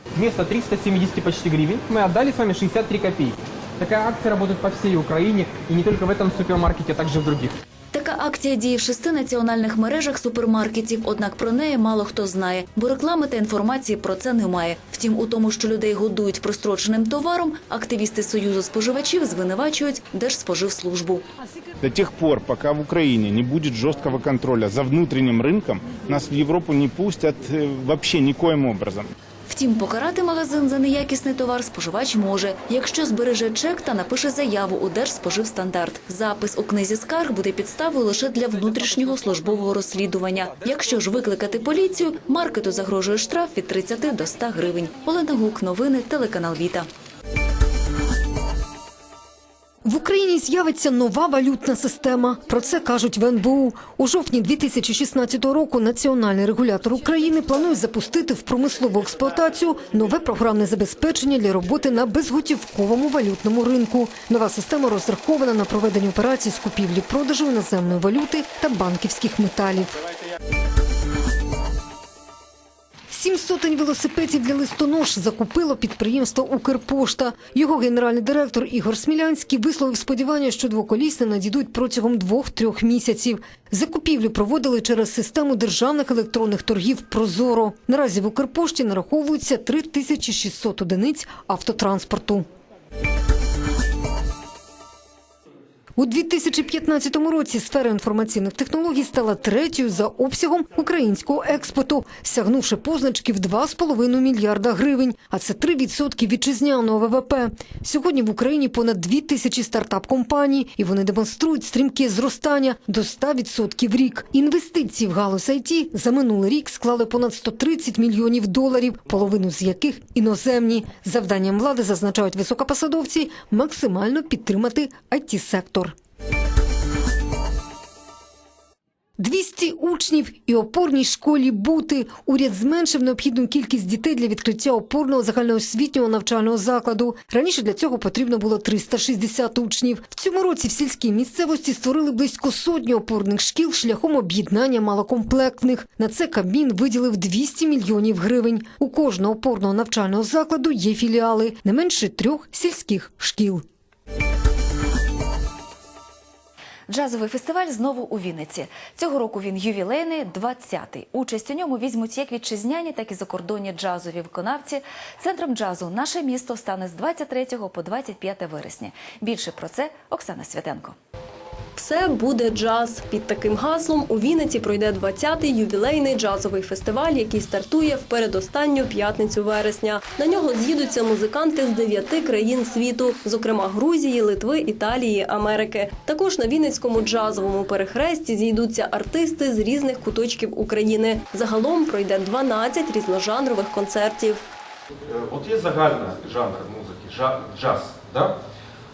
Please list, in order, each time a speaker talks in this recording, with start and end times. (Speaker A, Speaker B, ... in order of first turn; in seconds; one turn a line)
Speaker A: 0.1-7.5
Speaker B: 7.9-21.2
Speaker C: 21.8-29.1
Speaker B: 29.5-46.9
Speaker A: 38.7-39.3
Speaker A: 40.5-40.7
Speaker D: 49.9-70.0
Speaker D: 73.1-92.5
Speaker D: 96.0-126.0
Speaker D: 129.2-153.6
Speaker B: 156.9-171.0
Speaker E: 171.8-194.4
Speaker F: 195.1-198.4